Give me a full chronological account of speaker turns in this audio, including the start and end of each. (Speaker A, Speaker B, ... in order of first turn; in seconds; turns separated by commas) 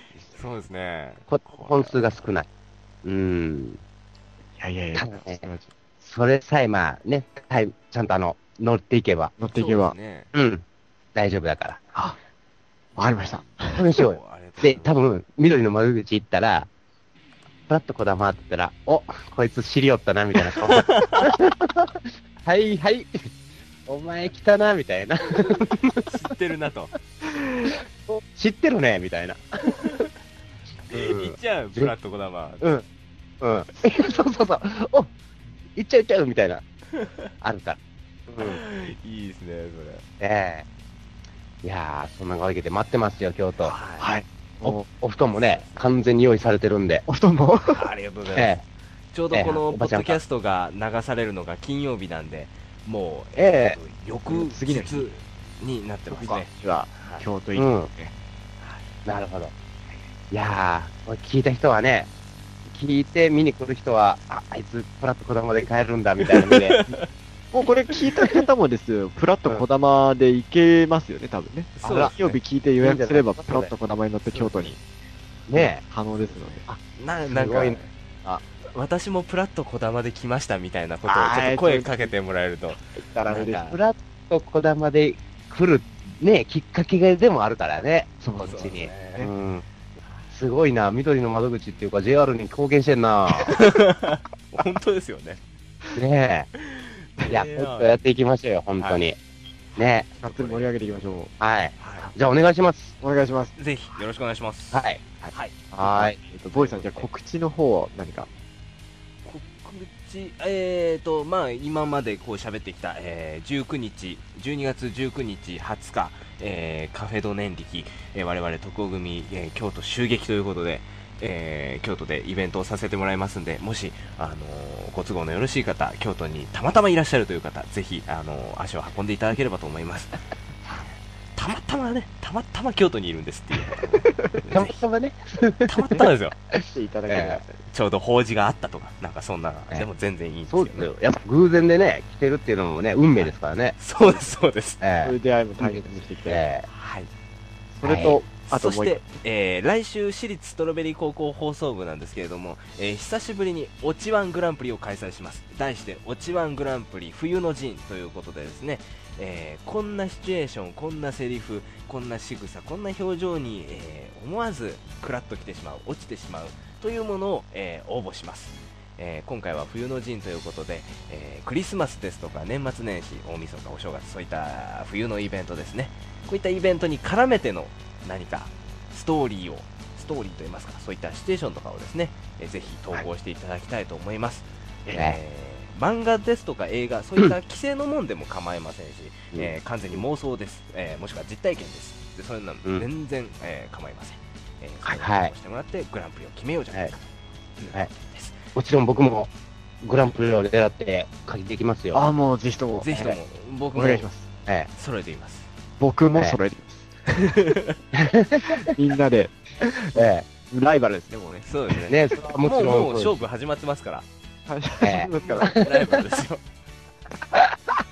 Speaker A: 0.3-2.2, Speaker B: 1.3-2.5, Speaker B: 3.0-3.8, Speaker C: 4.6-5.7, Speaker B: 4.9-5.5, Speaker B: 6.0-9.3, Speaker C: 9.4-10.0, Speaker A: 9.5-10.3, Speaker B: 10.3-10.6, Speaker B: 11.1-11.8, Speaker C: 12.9-13.8, Speaker B: 13.8-16.7, Speaker A: 14.0-14.9, Speaker B: 17.7-23.3, Speaker A: 20.8-21.2, Speaker B: 23.9-26.1, Speaker A: 26.0-26.9, Speaker B: 28.0-29.9, Speaker A: 29.8-30.1, Speaker A: 30.9-32.6, Speaker B: 30.9-31.9, Speaker B: 33.4-35.1, Speaker B: 35.8-36.6, Speaker B: 37.4-37.8, Speaker B: 38.3-38.6, Speaker A: 38.4-40.0, Speaker B: 40.2-40.6, Speaker B: 41.6-43.7, Speaker A: 43.6-44.1, Speaker C: 44.0-44.9, Speaker B: 44.6-47.0, Speaker A: 45.3-45.7, Speaker C: 47.1-47.9, Speaker A: 47.7-48.5, Speaker B: 48.3-48.6, Speaker A: 49.1-57.3, Speaker B: 49.3-50.2, Speaker B: 53.4-53.8, Speaker C: 54.3-55.1, Speaker C: 56.1-58.1, Speaker B: 57.5-57.9, Speaker A: 58.6-58.9, Speaker B: 59.0-59.5, Speaker B: 60.3-62.1, Speaker B: 62.7-66.8, Speaker A: 66.3-67.0, Speaker C: 67.5-74.8, Speaker A: 67.9-68.5, Speaker A: 71.8-72.3, Speaker B: 71.8-72.2, Speaker B: 72.8-73.7, Speaker A: 74.2-74.7, Speaker B: 75.5-75.8, Speaker C: 75.5-76.7, Speaker B: 76.7-78.4, Speaker A: 77.0-77.9, Speaker A: 78.7-83.8, Speaker C: 81.0-82.1, Speaker C: 82.8-83.6, Speaker B: 83.4-89.6, Speaker C: 88.2-89.3, Speaker A: 88.4-89.3, Speaker A: 90.0-90.3, Speaker B: 90.3-93.6, Speaker A: 93.5-95.4, Speaker B: 95.9-96.5, Speaker A: 96.6-98.0, Speaker B: 97.3-99.2, Speaker A: 98.8-99.0, Speaker B: 99.8-100.1, Speaker A: 100.1-100.7, Speaker C: 100.2-101.3, Speaker B: 101.4-102.9, Speaker A: 101.8-102.1, Speaker C: 103.0-103.5, Speaker A: 103.5-105.5, Speaker B: 104.7-105.0, Speaker C: 105.2-108.3, Speaker B: 105.8-106.2, Speaker A: 106.5-107.1, Speaker A: 109.2-134.8, Speaker C: 134.0-134.5, Speaker B: 134.5-137.4, Speaker A: 135.7-136.3, Speaker C: 136.7-137.6, Speaker A: 137.1-140.9, Speaker B: 140.5-143.8, Speaker A: 143.2-144.8, Speaker B: 144.8-146.7, Speaker C: 145.0-146.4, Speaker A: 146.7-147.1, Speaker C: 147.7-149.0, Speaker B: 147.8-148.2, Speaker A: 148.4-197.0, Speaker B: 184.9-185.2, Speaker B: 189.3-190.0, Speaker B: 194.8-195.3, Speaker A: 197.6-198.4, Speaker B: 198.5-199.3, Speaker B: 199.8-202.1, Speaker C: 201.9-203.2, Speaker A: 202.8-204.1, Speaker C: 203.7-204.3, Speaker A: 204.7-205.5, Speaker C: 205.8-206.9, Speaker A: 207.2-207.8, Speaker B: 207.9-208.7, Speaker C: 208.7-211.5, Speaker B: 209.9-210.2, Speaker A: 211.4-214.1, Speaker B: 211.9-213.2, Speaker C: 214.5-216.0, Speaker B: 214.8-216.0, Speaker A: 215.2-216.4